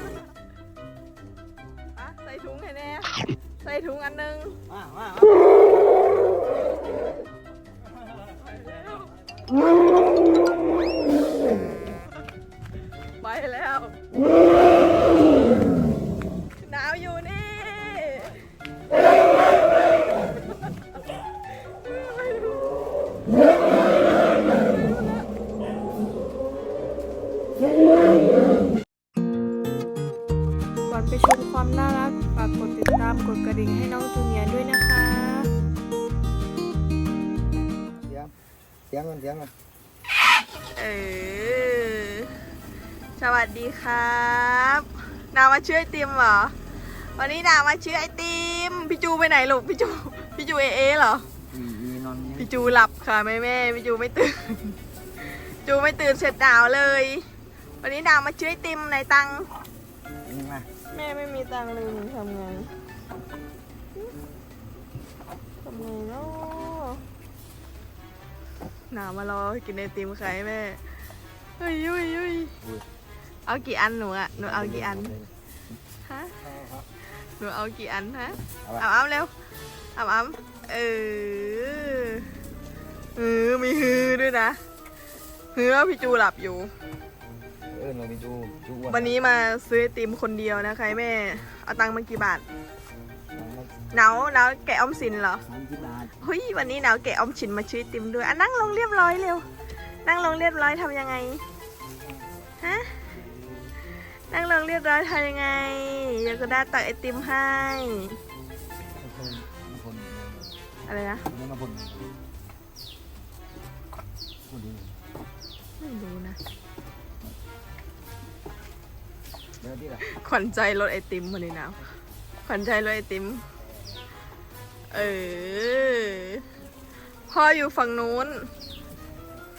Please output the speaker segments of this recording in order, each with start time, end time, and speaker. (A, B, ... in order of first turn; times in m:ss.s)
0:01.9-0:04.6 A
0:04.7-0:05.6 B
0:08.4-0:09.1 A
0:13.2-0:14.0 A
0:16.6-0:18.4 A
0:21.9-0:22.5 A
0:30.9-0:35.4 A
0:38.0-0:38.3 B
0:38.9-0:39.5 B
0:40.8-0:42.3 A
0:43.2-0:51.2 A
0:51.5-0:52.7 B
0:52.4-0:57.3 A
0:57.8-0:59.5 A
1:00.2-1:00.7 B
1:00.9-1:02.7 A
1:05.6-1:07.0 A
1:08.9-1:10.8 A
1:11.6-1:12.5 A
1:13.5-1:15.1 A
1:14.4-1:15.3 B
1:16.0-1:16.4 A
1:16.4-1:16.8 B
1:17.4-1:19.3 A
1:20.0-1:22.3 A
1:23.2-1:24.6 A
1:25.5-1:26.7 A
1:27.7-1:29.2 B
1:28.9-1:32.4 A
1:33.3-1:33.7 B
1:33.9-1:35.4 A
1:35.4-1:36.1 B
1:36.2-1:39.4 A
1:40.0-1:41.4 A
1:42.6-1:43.0 A
1:43.2-1:43.7 B
1:44.3-1:48.2 A
1:49.0-1:50.5 B
1:50.8-1:51.2 A
1:51.3-1:52.1 B
1:54.5-1:55.0 B
1:55.8-1:56.4 A
1:59.6-2:00.0 B
2:00.0-2:01.8 A
2:02.4-2:03.4 A
2:04.9-2:06.4 A
2:07.3-2:08.5 A